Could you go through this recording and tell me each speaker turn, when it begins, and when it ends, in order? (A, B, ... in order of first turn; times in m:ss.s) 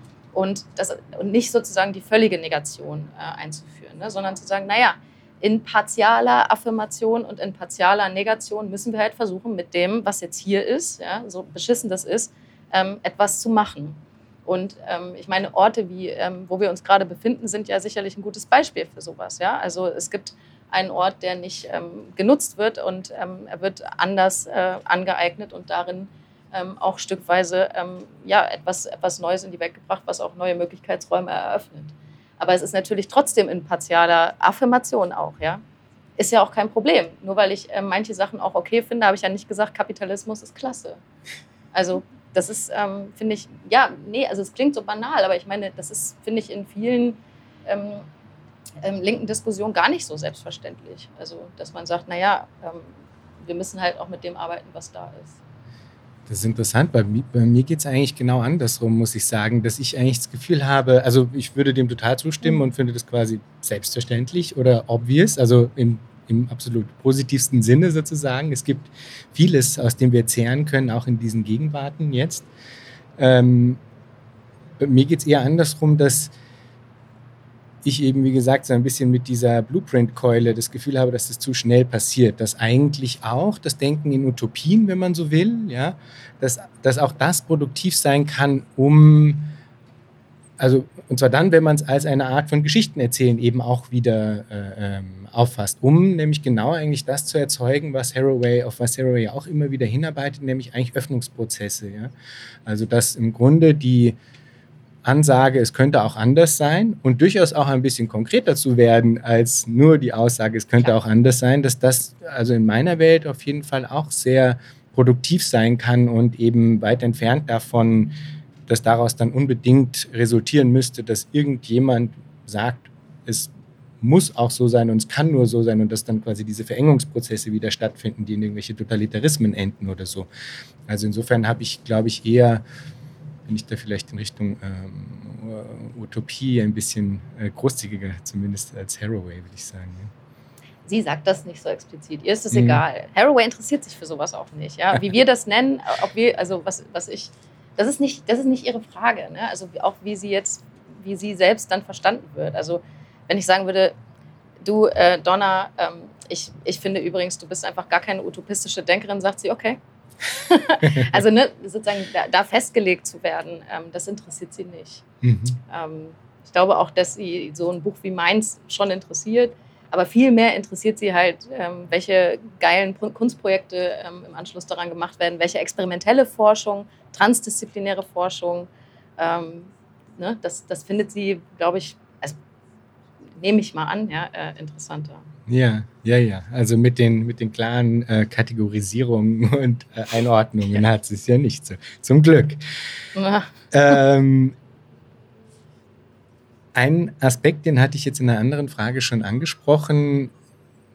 0:00.3-0:35.6 A
0:36.2-0:41.0 A
0:41.7-0:48.0 A
0:48.8-0:52.9 A
0:53.4-0:55.4 A
0:56.3-1:12.5 B
1:13.2-1:13.8 B
1:14.8-1:16.3 B
1:17.8-1:29.5 B
1:30.6-1:42.1 B
1:42.6-1:44.2 B
1:45.0-1:58.2 B
1:58.7-2:10.3 B
2:10.9-2:12.6 B
2:13.5-2:20.1 B
2:20.8-2:33.9 A
2:22.5-2:22.8 B
2:34.6-2:45.0 A
2:45.2-2:45.6 B
2:45.7-3:02.4 A
3:03.4-3:05.2 A
3:05.5-3:12.6 B
3:13.1-3:13.9 A
3:13.7-3:14.6 B
3:16.7-3:20.3 B